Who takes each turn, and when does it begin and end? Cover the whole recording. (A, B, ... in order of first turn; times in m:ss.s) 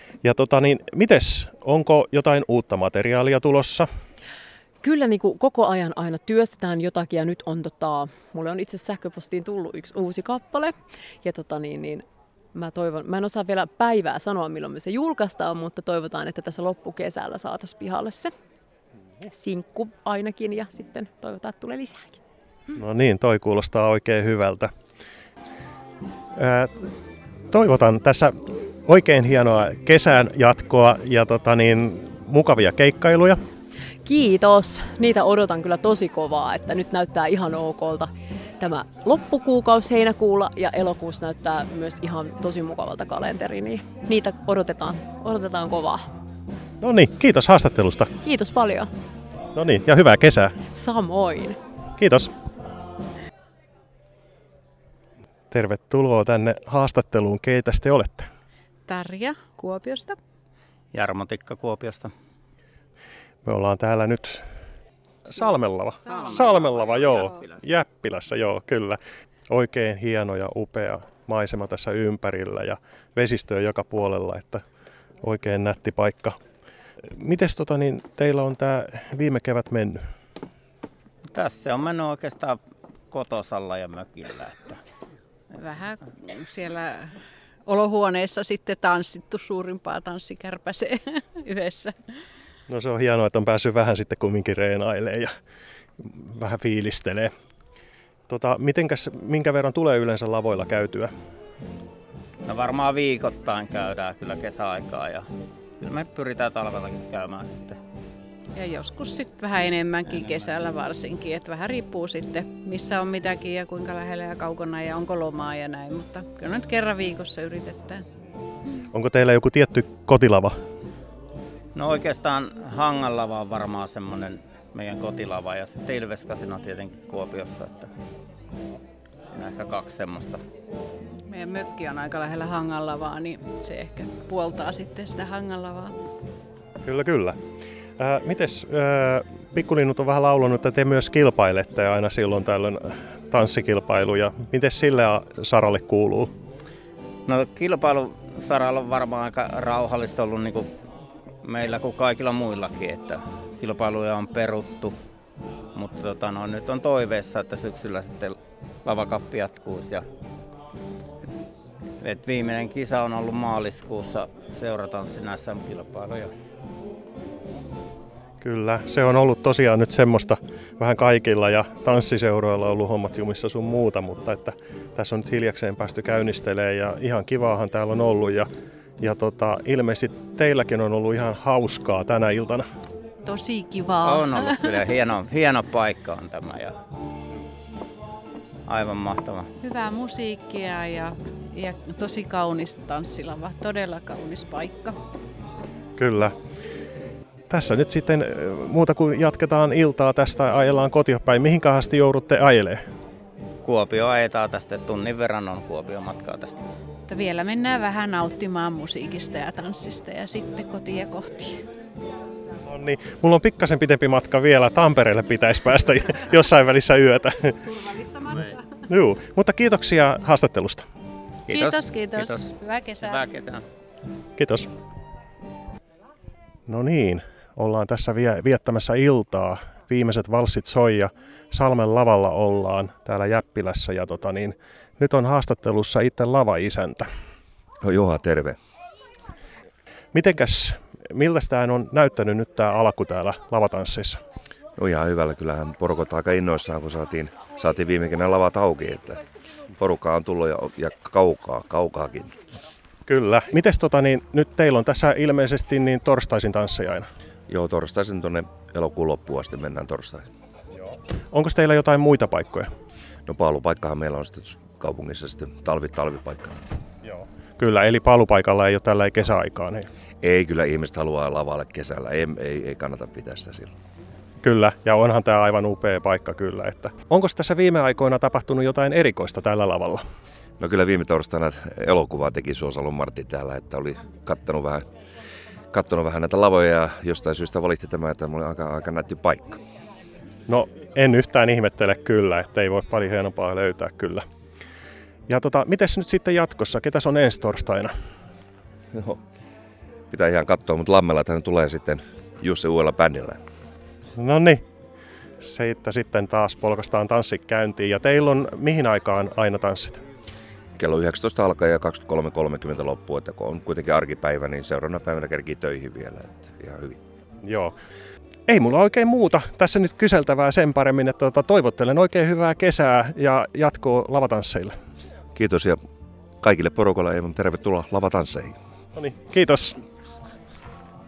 0:00.2-0:03.9 A
0:04.8-0:12.0 B
0:12.5-0:18.3 B
0:19.2-0:22.2 B
0:22.8-0:24.7 A
0:26.4-0:26.9 A
0:27.5-0:33.4 A
0:34.0-0:46.1 B
0:46.8-0:48.1 A
0:48.2-0:48.9 B
0:49.6-0:50.6 A
0:50.7-0:51.6 B
0:52.0-0:52.3 A
0:55.5-0:58.3 A
0:58.9-1:00.2 C
1:00.9-1:02.1 D
1:03.4-1:04.4 A
1:05.3-1:14.6 A
1:06.0-1:07.6 D
1:15.2-1:16.4 A
1:17.1-1:20.0 A
1:21.3-1:22.6 D
1:23.1-1:24.8 D
1:25.5-1:27.2 C
1:27.7-1:31.9 C
1:32.7-1:35.3 A
1:36.0-1:37.3 A
1:38.3-1:41.1 A
1:42.5-1:45.2 D
1:45.8-1:47.8 D
1:48.5-1:58.0 C
1:58.9-2:00.6 A
2:01.8-2:07.9 D
2:09.3-2:10.4 D
2:11.3-2:15.9 C
2:16.8-2:17.4 A
2:18.0-2:26.3 A
2:27.3-2:30.7 D
2:31.4-2:34.9 D
2:35.8-2:40.0 D
2:42.0-2:46.3 D
2:48.4-2:58.5 A
2:59.0-3:02.6 A
3:03.2-3:04.5 C
3:04.0-3:06.8 D
3:08.7-3:09.5 D
3:09.6-3:15.0 C
3:16.0-3:16.4 A
3:17.5-3:22.8 A
3:23.6-3:26.6 D
3:27.1-3:31.6 C
3:32.7-3:37.8 A
3:38.0-3:38.5 C
3:38.9-3:40.8 A
3:41.5-3:43.6 D
3:41.5-3:43.2 C
3:44.4-3:44.7 A
3:46.7-3:57.1 A
3:57.8-3:58.6 E
4:00.1-4:04.2 A
4:04.8-4:09.2 E
4:09.8-4:12.3 E
4:13.1-4:17.1 A
4:17.5-4:20.3 E
4:20.8-4:22.7 A
4:23.3-4:26.6 E
4:27.0-4:29.9 A
4:30.2-4:33.7 E
4:34.4-4:40.0 A
4:40.6-4:44.9 E
4:45.7-4:49.6 E
4:50.5-4:54.2 A
4:55.3-4:57.9 A
4:58.9-4:59.2 E
5:00.1-5:03.4 E
5:04.2-5:04.6 A
5:05.4-5:10.0 A
5:10.8-5:17.0 E
5:17.4-5:17.8 A
5:18.5-5:24.7 A
5:25.4-5:25.8 E
5:26.4-5:28.6 E
5:29.0-5:29.8 A